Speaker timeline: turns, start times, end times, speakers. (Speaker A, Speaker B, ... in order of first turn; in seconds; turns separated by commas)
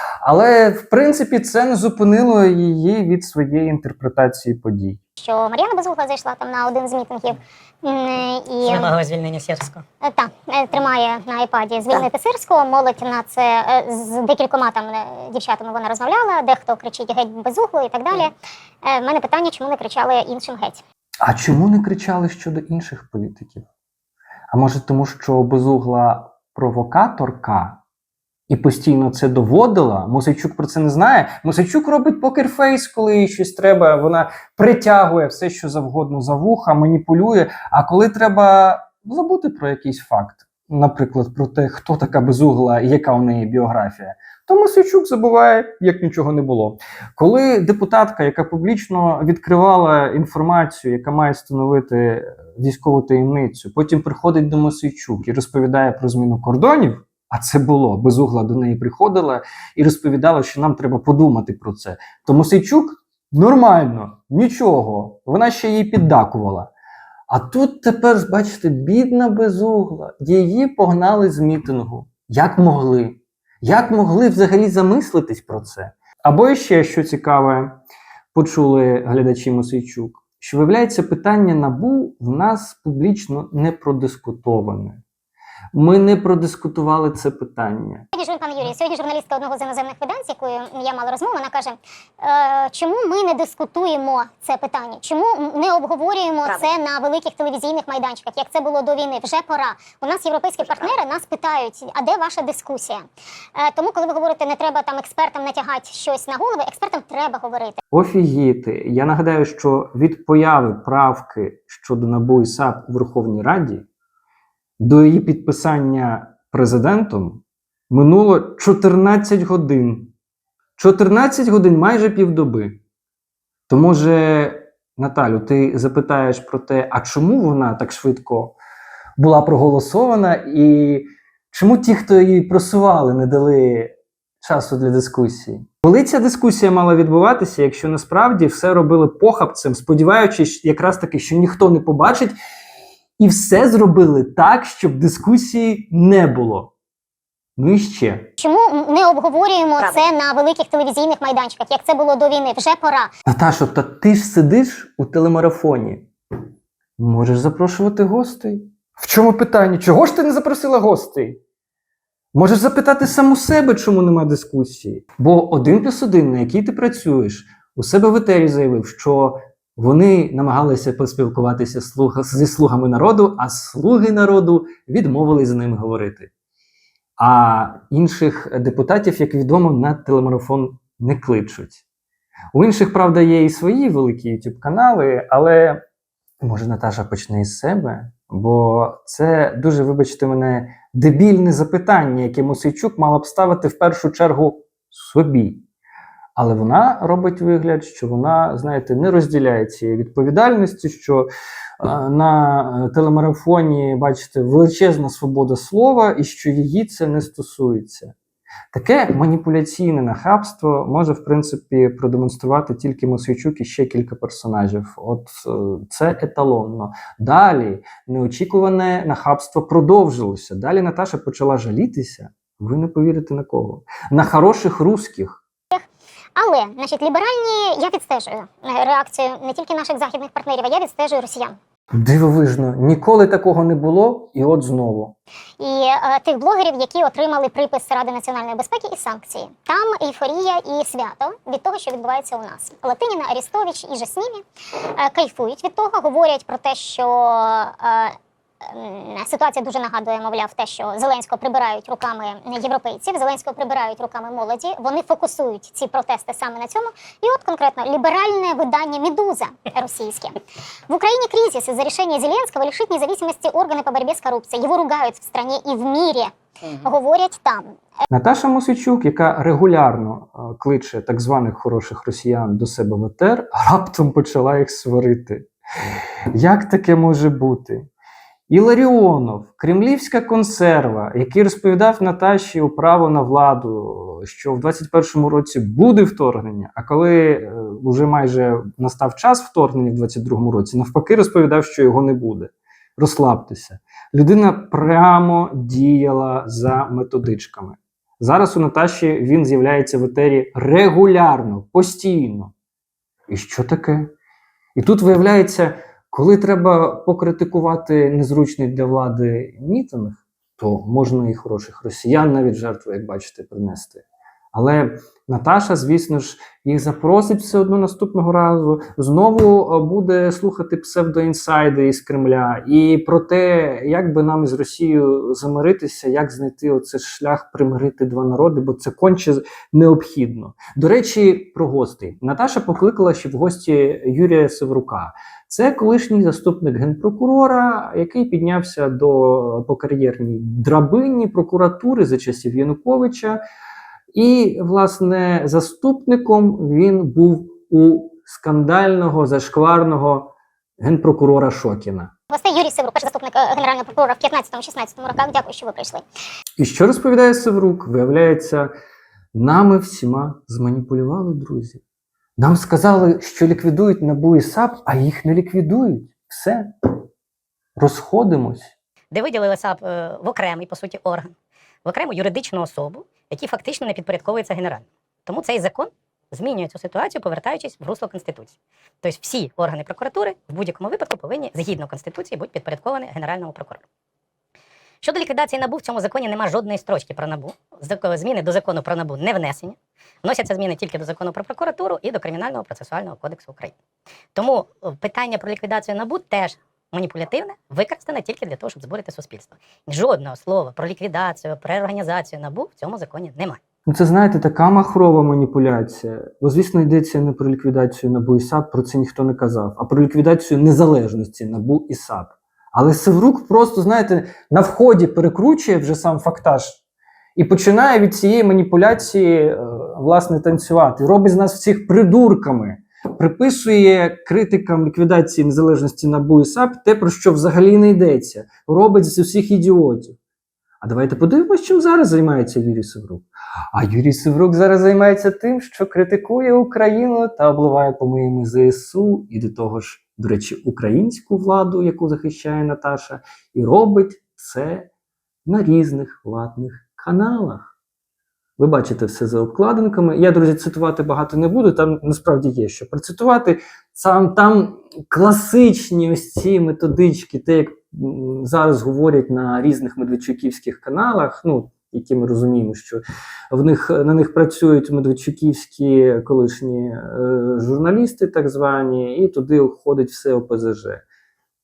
Speaker A: 0.2-5.0, Speaker B: 5.2-8.9, Speaker C: 8.7-9.8, Speaker B: 10.0-18.3, Speaker B: 18.8-20.8, Speaker A: 21.2-23.6, Speaker A: 24.5-27.8, Speaker A: 28.5-66.7, Speaker A: 67.3-77.8, Speaker A: 78.3-85.0, Speaker A: 85.7-88.0, Speaker B: 88.1-107.8, Speaker A: 107.9-113.8, Speaker A: 114.8-120.1, Speaker A: 120.8-122.8, Speaker A: 123.7-128.6, Speaker A: 129.2-142.3, Speaker A: 143.2-146.7, Speaker A: 147.6-148.3, Speaker B: 148.4-153.1, Speaker A: 153.3-156.1, Speaker A: 157.0-161.4, Speaker A: 162.3-176.3, Speaker A: 177.2-181.8, Speaker A: 182.5-185.8, Speaker A: 186.4-195.6, Speaker A: 196.4-201.3, Speaker A: 201.8-208.1, Speaker A: 208.7-225.4, Speaker B: 226.3-231.6, Speaker A: 231.9-235.2, Speaker B: 235.6-244.4, Speaker B: 245.0-260.4, Speaker B: 260.9-267.7, Speaker A: 268.1-275.5, Speaker A: 276.3-277.9, Speaker A: 278.5-302.5, Speaker A: 303.3-304.1, Speaker A: 304.8-343.4, Speaker A: 344.1-352.1, Speaker B: 352.3-356.0, Speaker A: 356.6-358.7, Speaker A: 359.3-361.8, Speaker A: 362.4-366.7, Speaker A: 367.8-368.7, Speaker C: 369.1-371.3, Speaker C: 371.8-383.9, Speaker C: 385.0-393.7, Speaker C: 394.3-403.6, Speaker A: 403.9-416.8, Speaker A: 417.4-430.2, Speaker A: 430.8-444.9, Speaker A: 445.5-447.7, Speaker A: 448.6-471.0